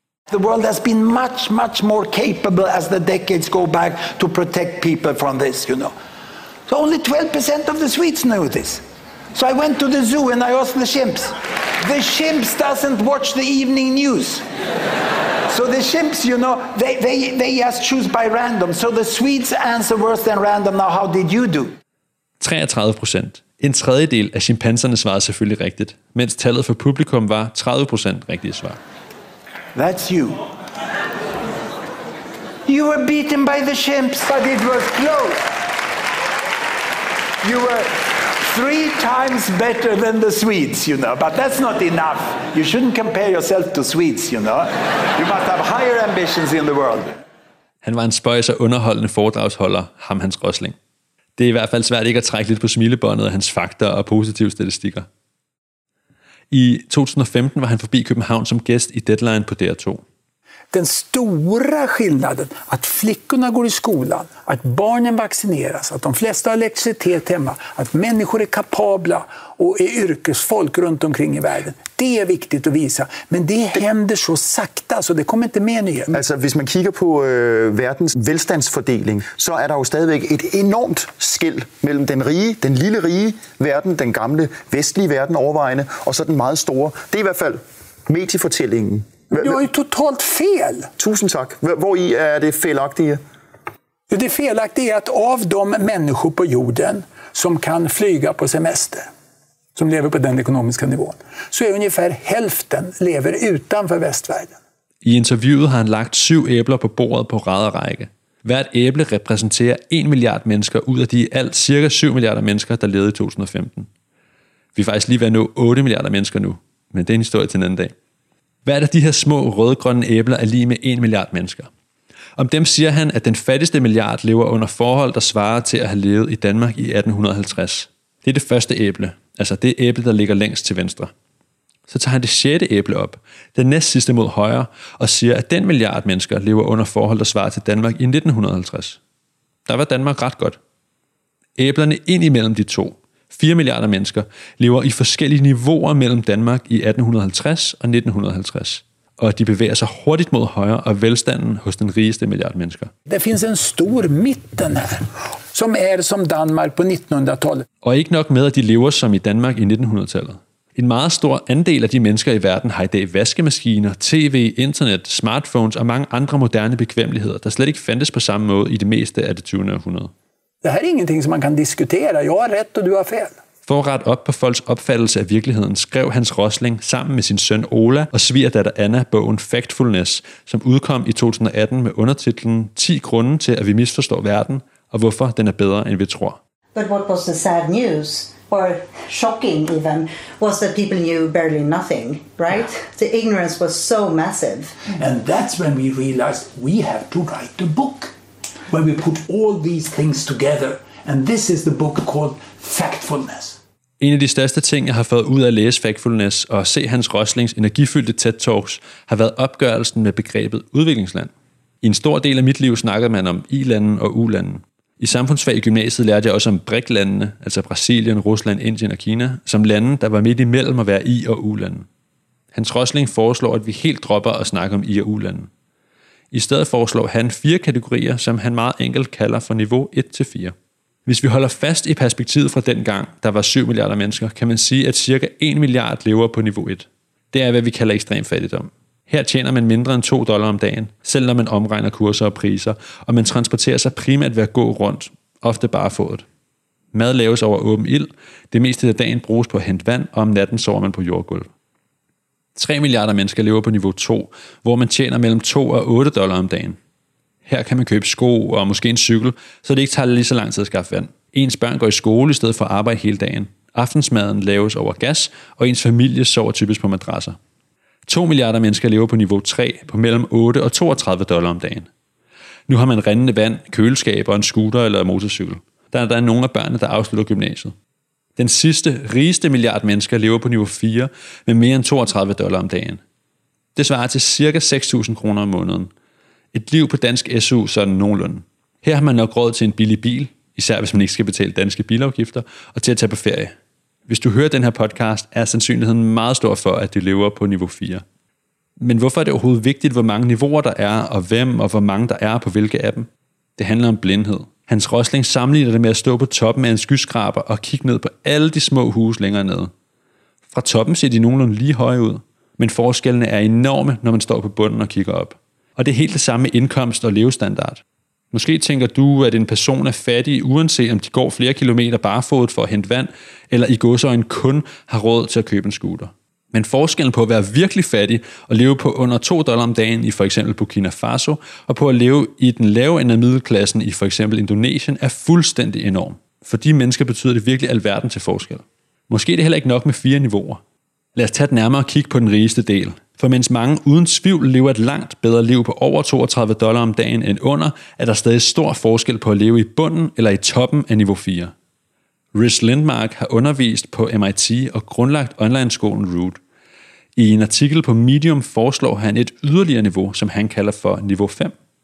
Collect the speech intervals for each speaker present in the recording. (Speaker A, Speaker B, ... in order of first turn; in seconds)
Speaker A: 0.3-5.9, 6.7-14.4, 15.5-21.8, 29.7-30.5, 32.6-35.5, 37.4-47.1, 195.0-198.0, 198.7-203.6
Speaker B: 22.4-28.8, 47.8-50.8, 51.4-55.1, 56.5-60.0, 105.0-113.9, 114.8-117.9, 118.7-121.7, 122.4-131.1, 131.9-139.0, 139.7-140.6, 141.6-152.9, 157.8-170.1, 173.7-186.4, 204.0-211.3, 211.8-221.9, 222.5-225.5, 226.3-230.6, 231.1-246.2, 246.9-251.5, 252.6-256.8, 257.5-267.4, 268.1-271.9, 272.7-277.7, 278.4-283.0, 283.8-285.9, 286.5-293.5, 294.1-298.0, 298.8-309.7, 310.5-340.6, 341.2-351.5, 352.3-356.4, 357.2-361.6
Speaker C: 60.7-76.2, 89.4-90.9, 94.1-99.1, 99.8-104.6, 153.1-157.7, 170.6-173.4, 195.3-198.0, 199.2-199.7, 202.5-202.9
Speaker D: 76.1-89.6, 91.0-93.2
Speaker E: 186.8-194.8